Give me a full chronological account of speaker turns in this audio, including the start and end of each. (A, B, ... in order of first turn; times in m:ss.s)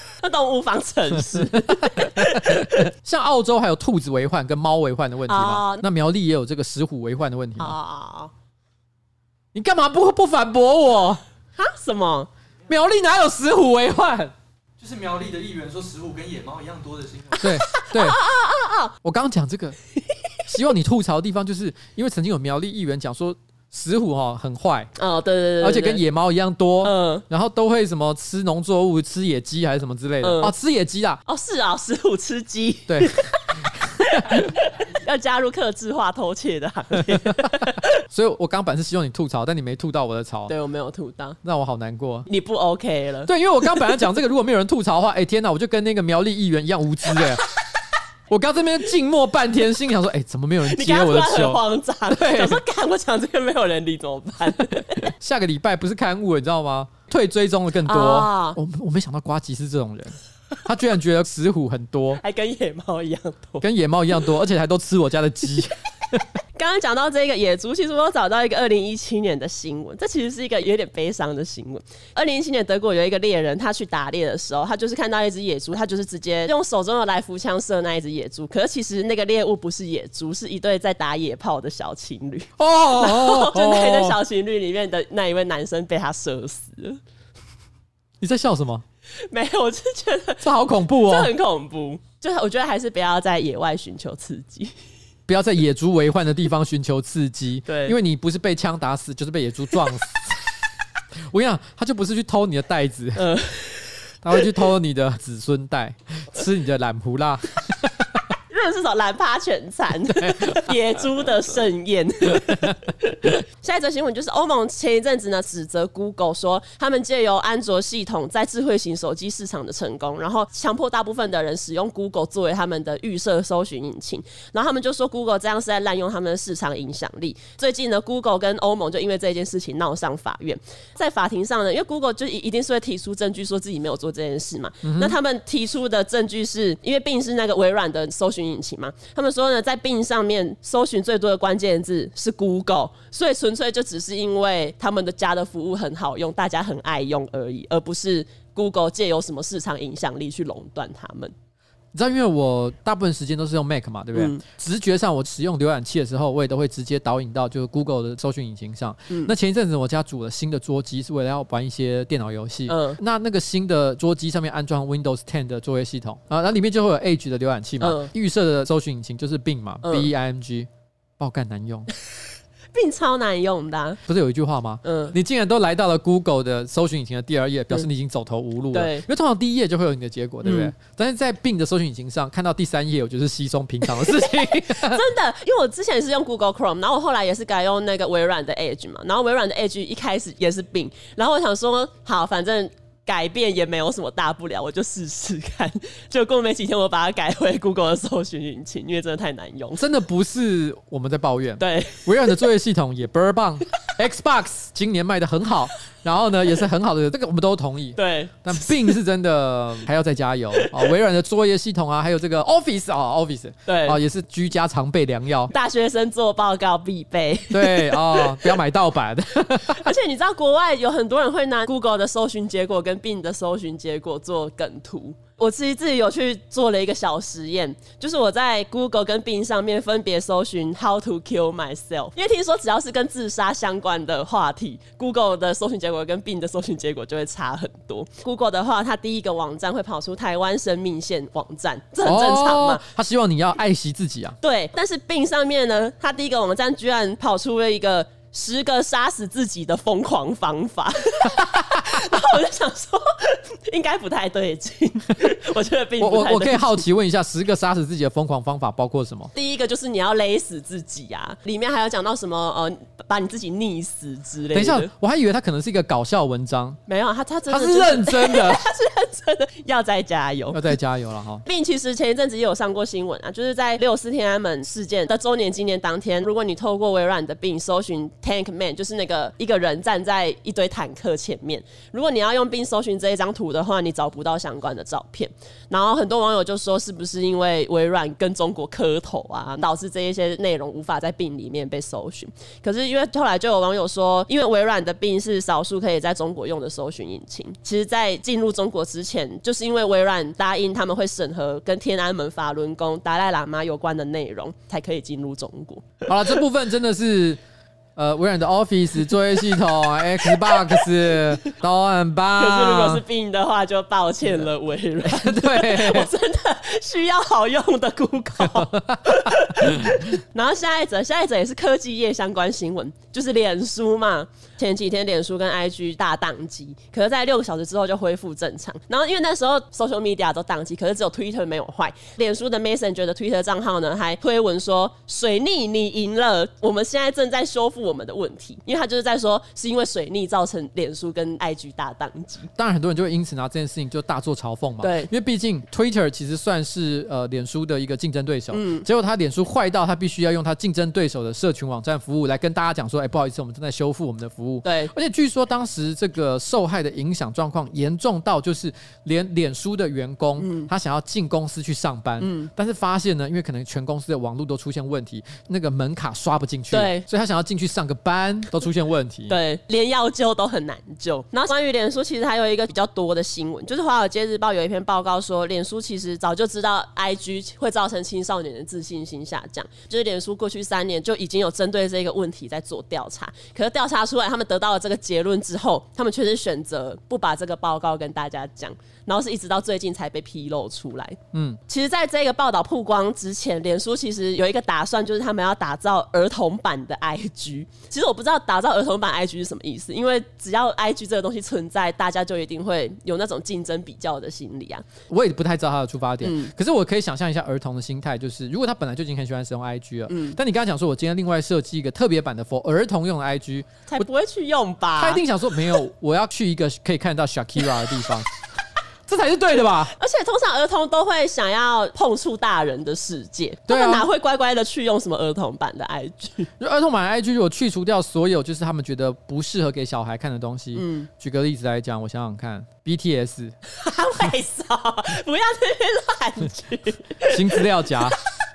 0:00.2-0:02.9 A
0:01.3-0:07.8 B
0:05.3-0:05.8 A
0:07.6-0:08.3 A
0:09.5-0:11.2 B
0:11.6-0:12.3 A
0:12.7-0:14.3 B
0:14.8-0:17.6 C
0:17.4-0:18.2 B
0:17.4-0:19.0 A
0:19.0-0:19.8 B
0:20.5-0:24.9 B
0:25.0-0:26.0 A
0:25.6-0:31.2 B
0:26.8-0:27.2 A
0:30.2-0:30.5 A
0:31.3-0:38.0 A
0:32.9-0:34.5 B
0:37.1-0:40.5 B
0:40.5-0:41.4 A
0:41.4-0:42.3 B
0:42.3-0:43.9 A
0:43.3-0:47.4 B
0:48.3-0:52.6 B
0:50.7-0:55.1 A
0:55.0-1:02.2 B
0:57.9-0:58.6 A
1:02.2-1:03.6 A
1:03.6-1:06.2 B
1:06.6-1:27.0 A
1:22.6-1:24.2 B
1:28.2-1:28.8 B
1:29.3-1:34.8 A
1:30.4-1:31.3 B
1:35.3-1:40.5 B
1:37.7-1:38.0 A
1:41.3-1:43.4 B
1:43.2-1:44.0 A
1:44.2-1:48.2 B
1:48.5-2:31.3 A
1:50.1-1:50.7 B
2:14.8-2:15.2 B
2:31.9-2:50.7 B
2:34.1-2:34.4 A
2:42.7-2:43.0 A
2:47.8-2:48.1 A
2:49.8-2:50.1 A
2:51.2-2:51.9 B
2:52.7-2:54.0 A
2:54.1-3:05.0 B
2:54.8-2:55.2 A
2:58.7-2:59.0 A
3:00.4-3:00.7 A
3:04.3-3:19.8 A
3:19.8-3:35.5 B
3:21.6-3:22.4 A
3:28.0-3:28.9 A
3:30.6-3:30.9 A
3:33.7-3:34.0 A
3:35.5-3:38.6 A
3:37.5-3:39.9 B
3:39.7-4:02.8 A
4:02.0-4:04.4 B
4:04.4-4:16.8 A
4:16.0-4:19.3 B
4:19.3-4:24.9 A
4:24.5-4:26.8 B
4:26.9-4:30.8 A
4:27.5-4:28.7 B
4:30.5-4:31.4 B
4:31.4-5:06.4 A
5:06.1-5:07.4 B
5:08.0-5:13.0 B
5:10.2-5:10.9 A
5:12.4-5:42.5 A
5:15.0-5:16.1 B
5:18.4-5:20.0 B
5:42.6-6:09.4 B
5:44.8-5:45.1 A
5:48.5-5:48.9 A
5:54.6-5:54.9 A
6:00.4-6:00.7 A
6:02.2-6:02.5 A
6:06.7-6:07.1 A
6:09.3-6:44.8 A
6:31.3-6:31.6 B
6:45.1-6:54.0 B
6:46.2-6:46.5 A
6:50.1-6:50.4 A
6:53.9-6:55.2 A
6:55.0-6:58.3 B
6:59.1-7:00.0 B
7:00.0-7:06.5 A
7:03.7-7:04.1 B
7:06.6-7:13.6 B
7:10.8-7:11.1 A
7:13.7-7:18.1 A
7:17.3-7:18.2 B